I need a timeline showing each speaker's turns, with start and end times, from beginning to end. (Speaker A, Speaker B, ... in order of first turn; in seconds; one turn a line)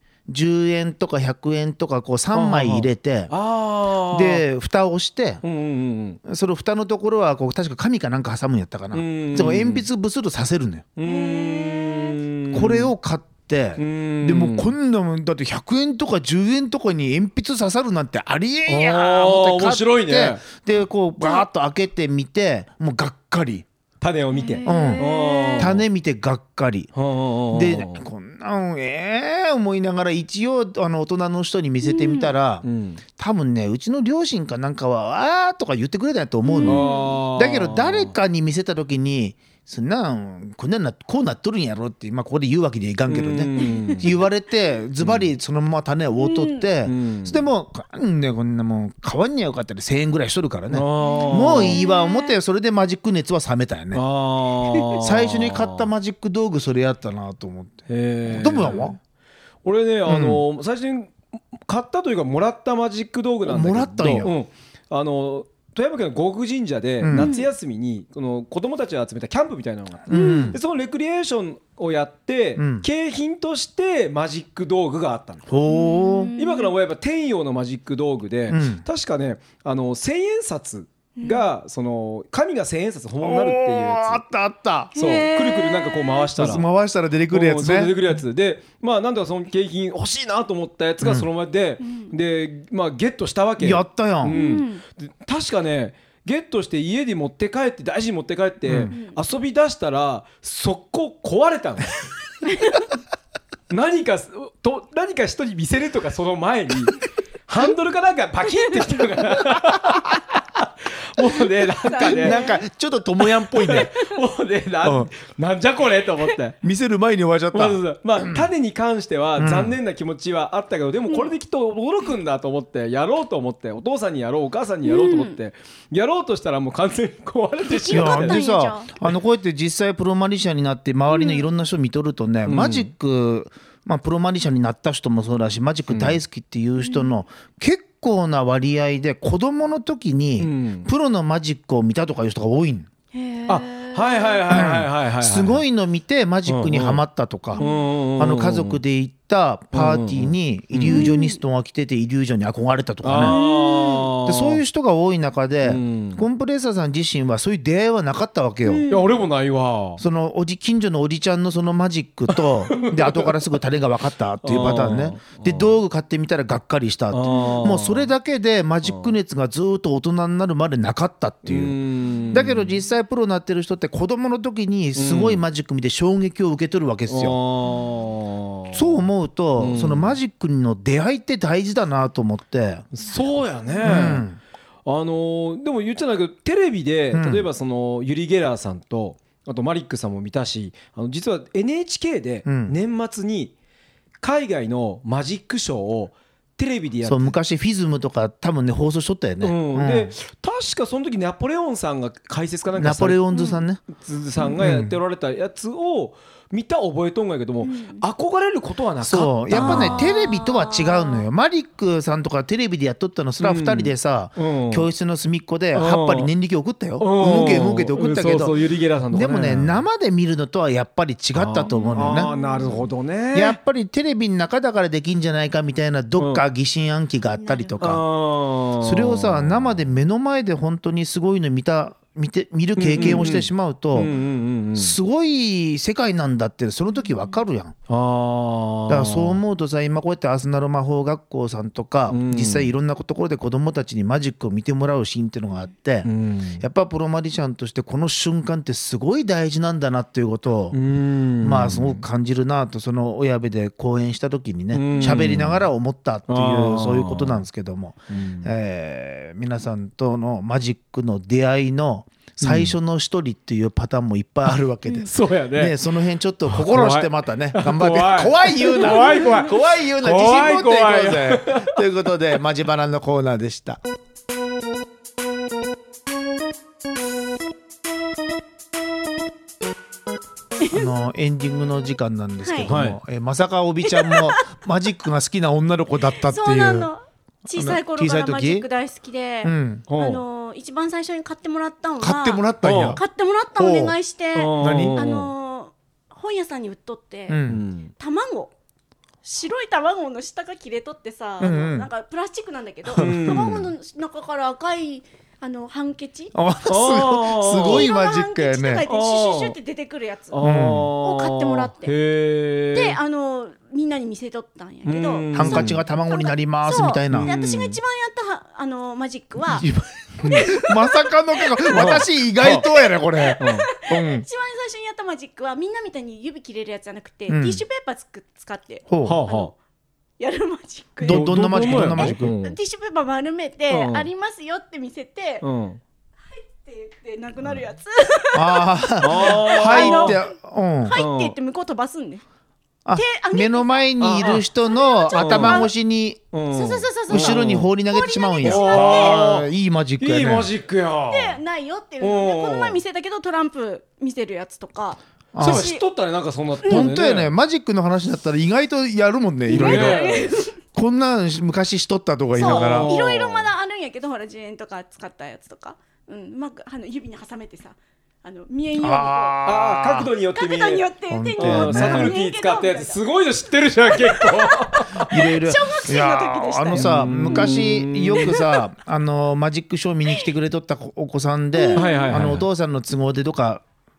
Speaker A: 0.3-3.3
Speaker B: 2.3-4.4
Speaker A: 4.1-5.4
Speaker B: 5.4-6.2
Speaker A: 6.2-10.9
Speaker B: 8.9-9.9
Speaker B: 11.0-12.9
Speaker C: 11.0-12.2
Speaker A: 12.5-23.6
Speaker B: 13.8-14.7
Speaker B: 18.7-20.5
Speaker B: 24.0-25.8
Speaker C: 24.3-25.8
Speaker A: 24.6-26.9
Speaker B: 26.9-28.0
Speaker A: 27.5-32.6
Speaker C: 31.8-32.3
Speaker B: 32.6-33.0
Speaker A: 33.2-54.0
Speaker C: 36.4-37.2
Speaker B: 36.6-38.1
Speaker B: 43.1-44.2
Speaker C: 43.6-44.1
Speaker B: 45.0-45.3
Speaker C: 46.2-46.7
Speaker B: 46.8-47.5
Speaker B: 50.7-51.8
Speaker C: 51.0-52.4
Speaker B: 53.9-55.9
Speaker A: 54.9-59.0
Speaker B: 57.9-58.9
Speaker C: 58.6-58.9
Speaker B: 59.6-75.5
Speaker A: 60.0-60.4
Speaker A: 63.4-64.3
Speaker A: 67.0-67.3
Speaker C: 67.1-67.5
Speaker A: 70.1-70.6
Speaker C: 70.1-70.5
Speaker A: 72.5-72.9
Speaker A: 75.5-76.3
Speaker C: 75.7-76.7
Speaker B: 76.3-84.2
Speaker A: 78.5-78.8
Speaker C: 81.2-81.4
Speaker A: 83.2-84.9
Speaker C: 84.9-86.3
Speaker B: 85.0-86.7
Speaker A: 86.4-88.0
Speaker B: 87.3-102.0
Speaker A: 91.0-91.3
Speaker C: 91.8-92.1
Speaker A: 93.6-94.4
Speaker C: 94.3-94.8
Speaker A: 98.7-98.9
Speaker C: 98.9-99.2
Speaker C: 102.4-102.8
Speaker B: 103.7-112.5
Speaker A: 111.8-113.9
Speaker C: 111.8-112.6
Speaker B: 113.5-116.6
Speaker A: 114.8-115.1
Speaker A: 116.6-118.5
Speaker B: 117.5-128.5
Speaker A: 119.4-119.8
Speaker C: 121.1-121.3
Speaker C: 124.8-125.3
Speaker C: 127.7-128.9
Speaker A: 127.9-142.9
Speaker C: 131.1-131.5
Speaker B: 132.4-132.9
Speaker B: 135.9-136.2
Speaker C: 136.8-137.1
Speaker B: 140.4-140.9
Speaker C: 143.1-144.5
Speaker B: 143.5-145.6
Speaker A: 144.5-147.6
Speaker B: 146.4-147.0
Speaker C: 147.5-147.8
Speaker B: 147.6-148.8
Speaker A: 148.2-153.4
Speaker B: 149.7-151.1
Speaker C: 150.8-151.4
Speaker B: 153.0-154.6
Speaker C: 153.2-154.2
Speaker A: 154.2-158.8
Speaker B: 155.6-156.2
Speaker C: 158.6-159.2
Speaker B: 158.9-160.0
Speaker A: 160.0-171.8
Speaker B: 162.3-163.4
Speaker B: 164.4-165.8
Speaker B: 167.1-168.1
Speaker B: 168.8-169.1
Speaker B: 171.4-172.8
Speaker A: 172.3-177.4
Speaker B: 174.9-175.4
Speaker B: 177.1-179.0
Speaker A: 178.7-182.8
Speaker B: 179.6-180.2
Speaker B: 182.9-184.2
Speaker C: 183.8-184.1
Speaker A: 183.8-184.4
Speaker B: 184.8-193.5
Speaker A: 187.1-187.5
Speaker A: 192.4-192.7
Speaker B: 194.2-197.3
Speaker A: 197.0-200.1
Speaker B: 199.4-203.2
Speaker A: 202.7-203.8
Speaker C: 203.3-203.6
Speaker B: 203.9-210.1
Speaker A: 204.6-205.0
Speaker C: 207.6-208.0
Speaker A: 209.0-218.6
Speaker C: 209.5-211.2
Speaker B: 213.4-214.9
Speaker B: 215.7-216.3
Speaker B: 217.0-219.8
Speaker A: 219.1-222.3
Speaker B: 221.3-223.6
Speaker C: 221.7-222.9
Speaker A: 223.3-228.1
Speaker B: 226.2-226.4
Speaker C: 227.4-227.9
Speaker B: 227.8-229.8
Speaker A: 228.8-234.1
Speaker B: 232.8-235.0
Speaker C: 233.0-233.2
Speaker A: 234.8-237.7
Speaker C: 237.1-237.4
Speaker B: 237.9-239.4
Speaker A: 238.9-250.8
Speaker B: 242.1-242.7
Speaker B: 246.0-246.6
Speaker B: 250.7-252.0
Speaker A: 251.4-273.8
Speaker B: 254.7-255.7
Speaker B: 256.3-257.4
Speaker B: 258.1-258.5
Speaker B: 262.4-262.7
Speaker B: 265.0-265.8
Speaker B: 266.4-271.8
Speaker C: 280.6-280.9
Speaker A: 280.7-286.9
Speaker C: 282.4-282.7
Speaker B: 282.6-283.0
Speaker C: 283.9-284.4
Speaker C: 286.2-297.4
Speaker A: 287.5-288.7
Speaker A: 289.4-289.9
Speaker B: 289.9-290.2
Speaker A: 292.0-293.0
Speaker B: 292.6-293.0
Speaker A: 293.5-293.9
Speaker B: 294.3-295.3
Speaker A: 294.6-295.0
Speaker A: 297.3-297.6
Speaker B: 297.5-297.9
Speaker C: 298.0-298.5
Speaker C: 299.2-306.3
Speaker A: 301.4-301.9
Speaker A: 302.9-303.6
Speaker B: 302.9-303.7
Speaker A: 306.3-308.9
Speaker B: 306.6-307.9
Speaker C: 307.5-311.9
Speaker B: 308.9-309.6
Speaker B: 310.3-313.0
Speaker A: 310.4-310.9
Speaker C: 312.7-319.7
Speaker B: 314.8-315.8
Speaker A: 315.3-317.3
Speaker B: 317.1-317.8
Speaker A: 319.6-324.2
Speaker C: 320.2-329.5
Speaker B: 321.7-322.7
Speaker B: 323.4-323.7
Speaker A: 327.3-327.6
Speaker A: 328.9-329.2
Speaker B: 329.0-329.5
Speaker C: 330.2-335.4
Speaker A: 331.0-332.3
Speaker B: 331.0-332.6
Speaker B: 333.7-334.1
Speaker B: 335.4-335.8
Speaker C: 336.3-342.2
Speaker A: 338.3-340.9
Speaker B: 339.0-340.2
Speaker B: 340.9-341.4
Speaker A: 342.9-346.3
Speaker C: 342.9-345.7
Speaker B: 344.0-344.5
Speaker B: 345.1-345.7
Speaker B: 346.3-347.7
Speaker C: 346.5-349.4
Speaker A: 347.1-350.5
Speaker B: 348.4-349.5
Speaker B: 350.0-351.4
Speaker C: 351.1-355.8
Speaker B: 352.0-352.8
Speaker A: 355.3-355.7
Speaker B: 355.4-357.3
Speaker A: 356.6-363.0
Speaker B: 359.5-360.3
Speaker C: 359.5-360.6
Speaker C: 362.3-369.5
Speaker B: 362.4-363.5
Speaker A: 368.8-370.1
Speaker B: 369.4-375.3
Speaker C: 370.3-378.6
Speaker A: 371.1-372.2
Speaker A: 375.0-383.6
Speaker B: 376.7-378.5
Speaker C: 381.6-382.2
Speaker B: 381.7-382.5